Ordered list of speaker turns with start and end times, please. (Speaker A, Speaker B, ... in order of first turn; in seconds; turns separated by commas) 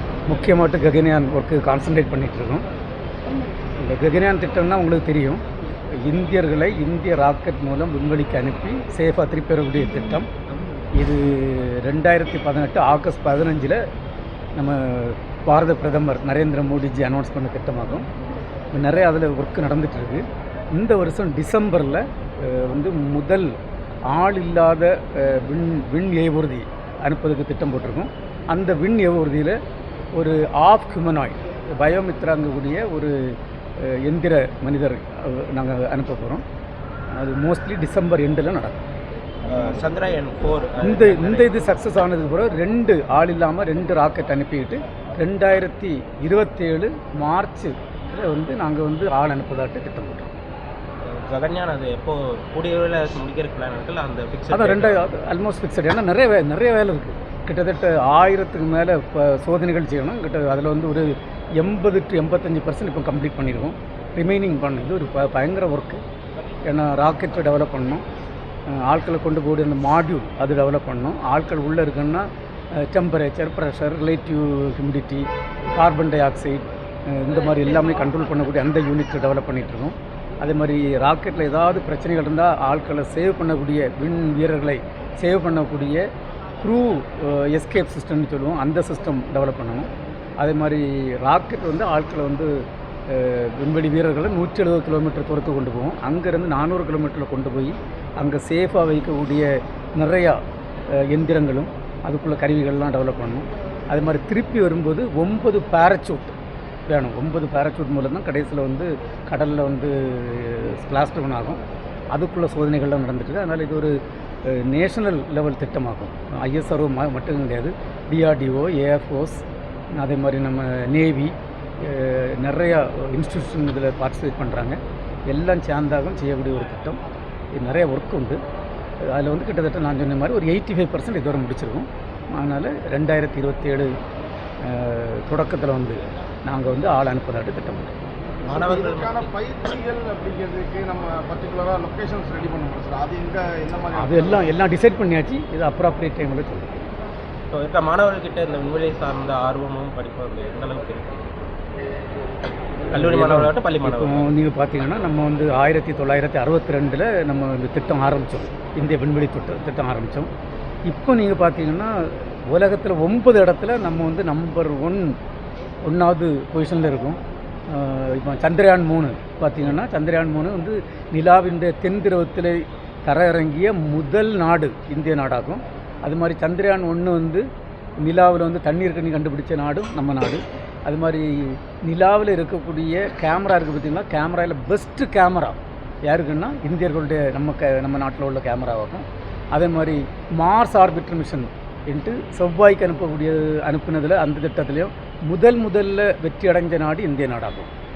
Speaker A: 0.3-2.7, Speaker A: 3.8-5.4, Speaker A: 6.0-10.3, Speaker A: 11.0-13.8, Speaker A: 14.6-18.1, Speaker A: 18.7-23.6, Speaker A: 24.1-29.6, Speaker A: 30.1-36.4, Speaker A: 37.1-38.9, Speaker B: 39.5-41.6, Speaker A: 40.8-50.3, Speaker B: 51.0-55.1, Speaker A: 54.5-66.0, Speaker A: 66.7-68.0, Speaker A: 68.7-86.0, Speaker A: 86.6-100.4, Speaker A: 100.9-106.4, Speaker A: 106.9-111.6, Speaker A: 112.1-119.5, Speaker A: 120.0-127.0, Speaker A: 127.5-128.4, Speaker A: 129.0-133.9, Speaker A: 134.6-137.9, Speaker B: 138.4-139.6, Speaker C: 138.5-144.5, Speaker A: 143.9-146.9, Speaker B: 147.5-151.4, Speaker B: 152.9-154.4, Speaker A: 152.9-160.3, Speaker A: 160.9-165.2, Speaker A: 165.8-177.4, Speaker A: 178.0-197.7